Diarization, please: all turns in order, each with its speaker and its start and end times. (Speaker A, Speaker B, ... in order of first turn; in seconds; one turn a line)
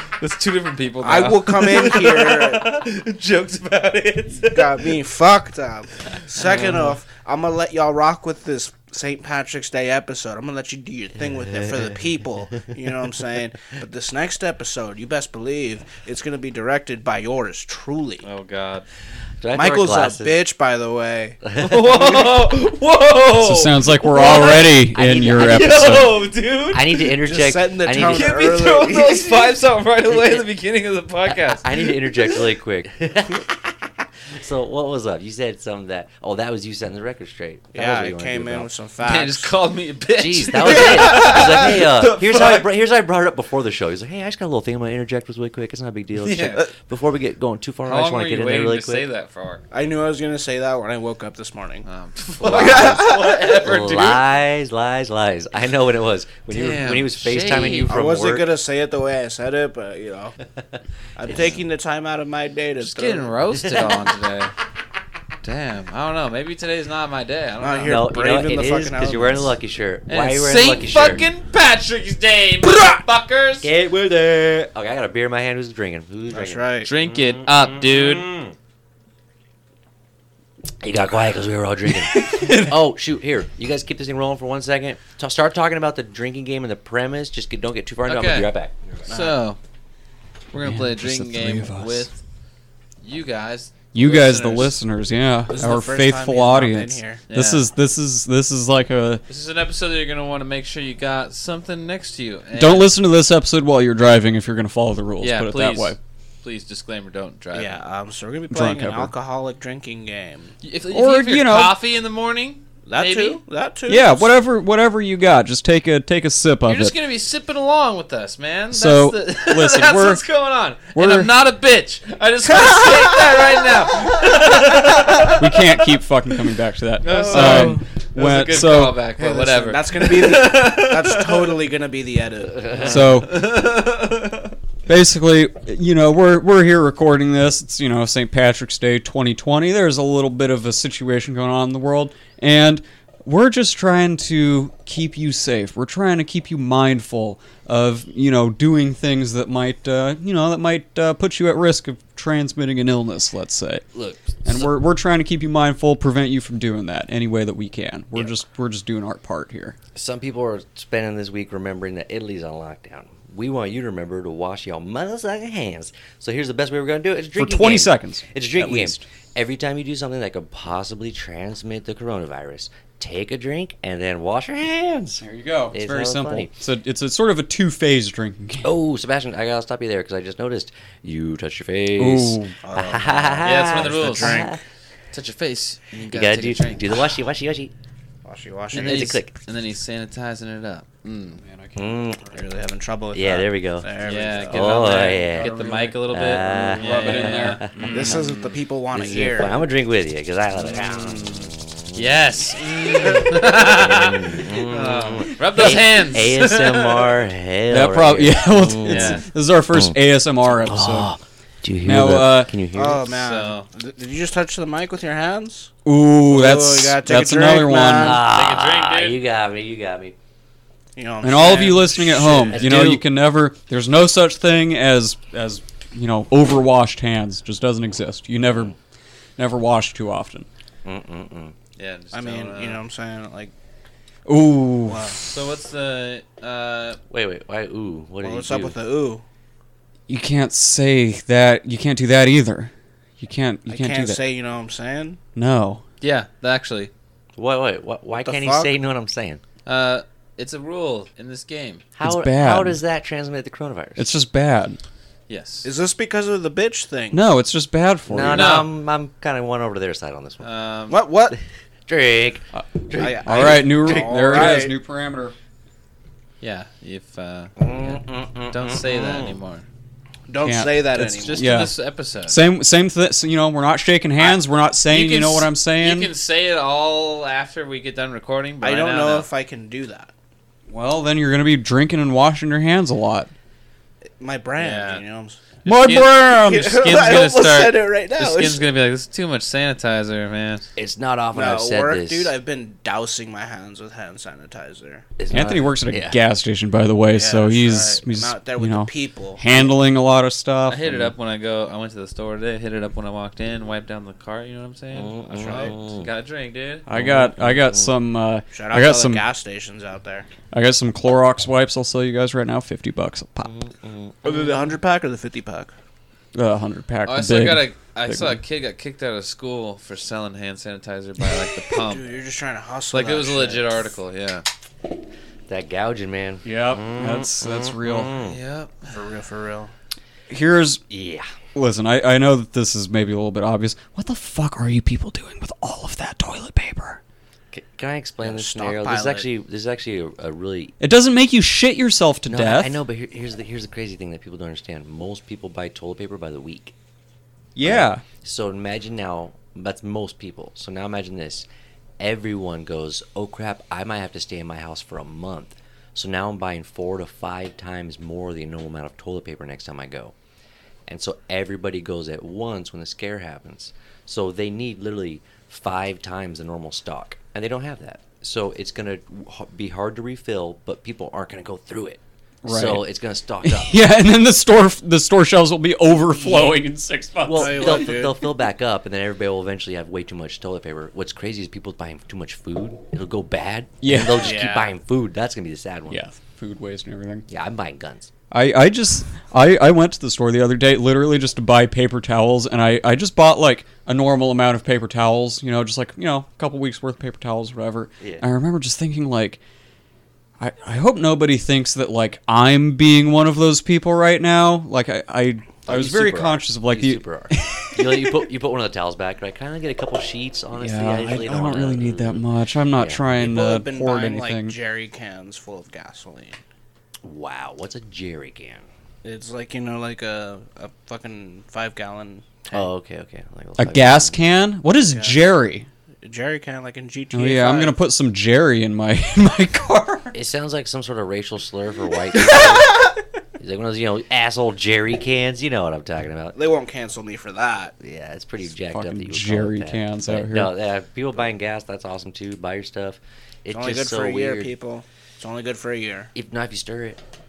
Speaker A: 0.2-5.0
Speaker B: 1.0-2.7
Speaker B: 4.5-18.2
Speaker A: 6.3-7.0
Speaker C: 11.6-11.9
Speaker A: 18.2-18.9
Speaker C: 19.4-20.4
Speaker B: 19.6-21.4
Speaker C: 21.4-22.1
Speaker A: 21.6-24.7
Speaker D: 23.4-26.2
Speaker C: 24.2-26.1
Speaker A: 25.4-27.2
Speaker C: 26.7-28.6
Speaker B: 27.2-29.3
Speaker A: 27.9-32.5
Speaker C: 30.1-30.5
Speaker C: 31.2-38.7
Speaker B: 37.8-39.5
Speaker A: 39.0-42.7
Speaker C: 40.2-49.1
Speaker A: 46.2-46.7
Speaker A: 47.9-49.6
Speaker B: 49.7-51.9
Speaker A: 51.9-54.2
Speaker B: 52.4-53.5
Speaker C: 52.4-58.5
Speaker A: 56.5-58.0
Speaker B: 57.9-60.4
Speaker C: 60.6-61.6
Speaker B: 61.2-63.3
Speaker A: 61.3-61.5
Speaker A: 62.8-64.5
Speaker C: 63.5-64.2
Speaker A: 65.4-68.1
Speaker B: 67.6-69.4
Speaker C: 67.8-71.3
Speaker A: 70.1-73.7
Speaker C: 73.6-78.6
Speaker B: 76.3-76.9
Speaker A: 76.8-78.3
Speaker C: 80.8-88.8
Speaker D: 82.1-82.7
Speaker A: 88.1-88.5
Speaker B: 89.1-89.4
Speaker A: 89.1-89.6
Speaker A: 90.5-92.2
Speaker D: 90.6-92.1
Speaker A: 93.0-94.8
Speaker D: 93.9-99.2
Speaker B: 95.5-97.2
Speaker A: 97.3-97.7
Speaker A: 99.3-102.9
Speaker D: 102.5-106.0
Speaker A: 105.2-107.8
Speaker B: 107.5-110.5
Speaker D: 108.5-109.1
Speaker A: 110.6-113.4
Speaker D: 110.9-111.8
Speaker B: 112.9-114.3
Speaker D: 113.9-117.0
Speaker A: 116.7-125.5
Speaker D: 118.7-120.2
Speaker D: 121.0-121.3
Speaker B: 122.7-123.0
Speaker D: 125.4-129.0
Speaker A: 127.0-131.6
Speaker B: 127.3-127.6
Speaker B: 129.2-132.9
Speaker C: 132.5-133.1
Speaker D: 132.9-133.4
Speaker A: 132.9-134.5
Speaker D: 134.9-153.9
Speaker C: 153.9-154.8
Speaker D: 154.4-159.8
Speaker C: 159.9-176.5
Speaker D: 167.4-169.1
Speaker D: 175.2-178.7
Speaker C: 178.6-184.6
Speaker D: 182.0-182.6
Speaker B: 182.6-184.6
Speaker A: 183.4-184.5
Speaker A: 185.1-187.1
Speaker C: 186.0-187.7
Speaker B: 188.2-189.2
Speaker C: 188.7-189.3
Speaker A: 188.7-191.4
Speaker D: 191.4-192.1
Speaker C: 191.8-192.2
Speaker B: 192.3-195.2
Speaker C: 193.1-193.9
Speaker A: 194.0-198.6
Speaker C: 194.5-198.2
Speaker D: 195.3-196.0
Speaker D: 196.7-198.1
Speaker B: 197.9-199.7
Speaker C: 198.9-210.0
Speaker A: 200.6-201.2
Speaker B: 200.7-201.0
Speaker D: 200.8-201.5
Speaker A: 201.9-207.2
Speaker D: 207.7-211.1
Speaker A: 208.8-209.3
Speaker C: 210.6-213.2
Speaker D: 211.8-212.5
Speaker B: 212.8-215.7
Speaker A: 213.1-213.7
Speaker D: 215.9-218.2
Speaker B: 216.3-218.2
Speaker C: 217.9-220.2
Speaker A: 218.3-219.2
Speaker B: 221.0-222.7
Speaker D: 221.2-228.8
Speaker C: 222.5-223.0
Speaker D: 229.4-230.5
Speaker C: 230.8-231.6
Speaker A: 231.8-232.8
Speaker B: 232.1-233.5
Speaker D: 234.3-235.2
Speaker B: 234.9-235.2
Speaker A: 235.2-237.0
Speaker C: 237.1-238.8
Speaker B: 238.2-239.2
Speaker D: 240.1-244.2
Speaker B: 243.7-245.2
Speaker D: 245.3-245.8
Speaker A: 246.0-246.9
Speaker C: 247.4-249.4
Speaker B: 248.2-248.7
Speaker A: 249.7-251.9
Speaker C: 252.0-254.1
Speaker D: 252.0-252.8
Speaker D: 254.0-254.8
Speaker A: 255.3-255.7
Speaker B: 255.6-257.2
Speaker D: 257.1-258.6
Speaker C: 258.1-260.5
Speaker A: 258.3-258.7
Speaker A: 260.4-261.0
Speaker B: 260.9-261.4
Speaker C: 261.3-264.6
Speaker D: 262.5-265.4
Speaker B: 263.0-264.8
Speaker A: 266.4-269.6
Speaker C: 267.6-269.4
Speaker B: 270.3-271.6
Speaker D: 270.4-271.8
Speaker A: 271.0-272.4
Speaker D: 272.3-276.1
Speaker A: 274.2-279.3
Speaker B: 278.6-280.1
Speaker D: 280.7-283.3
Speaker B: 284.2-285.4
Speaker A: 284.6-285.0
Speaker A: 285.6-290.7
Speaker D: 285.6-286.8
Speaker B: 286.4-288.6
Speaker C: 290.8-292.3
Speaker B: 291.3-295.1
Speaker C: 295.2-296.2
Speaker D: 295.3-301.1
Speaker B: 297.1-299.7
Speaker A: 300.7-306.9
Speaker C: 304.9-306.1
Speaker B: 305.3-305.7
Speaker D: 306.9-309.2
Speaker C: 306.9-307.9
Speaker B: 308.5-310.3
Speaker D: 310.5-313.5
Speaker C: 313.4-314.4
Speaker B: 314.2-315.7
Speaker D: 316.4-318.4
Speaker A: 317.1-322.1
Speaker B: 321.8-323.9
Speaker A: 322.9-324.4
Speaker C: 325.5-328.4
Speaker D: 326.4-328.1
Speaker A: 328.1-328.9
Speaker B: 328.9-329.7
Speaker D: 330.3-330.8
Speaker C: 330.9-331.3
Speaker D: 331.6-337.0
Speaker C: 337.5-340.7
Speaker B: 338.2-339.3
Speaker D: 340.8-342.8
Speaker C: 342.2-346.7
Speaker D: 347.6-348.0
Speaker C: 347.6-351.5
Speaker C: 352.0-360.1
Speaker C: 360.9-373.9
Speaker D: 372.4-372.9
Speaker D: 373.4-377.9
Speaker C: 376.2-376.6
Speaker C: 377.2-386.0
Speaker B: 377.3-378.3
Speaker D: 383.8-384.4
Speaker B: 384.2-384.7
Speaker D: 385.9-387.3
Speaker C: 387.3-388.1
Speaker D: 388.3-399.4
Speaker C: 398.0-398.3
Speaker D: 400.4-408.2
Speaker C: 405.7-413.0
Speaker D: 410.5-414.6
Speaker B: 413.1-416.4
Speaker C: 417.0-418.7
Speaker B: 419.0-422.7
Speaker C: 422.5-424.2
Speaker D: 423.6-425.7
Speaker B: 424.9-425.2
Speaker B: 426.0-427.8
Speaker D: 427.1-430.1
Speaker C: 430.1-432.9
Speaker C: 433.4-436.4
Speaker B: 436.4-437.7
Speaker C: 437.8-444.5
Speaker D: 438.7-440.5
Speaker B: 443.5-446.1
Speaker C: 446.1-447.0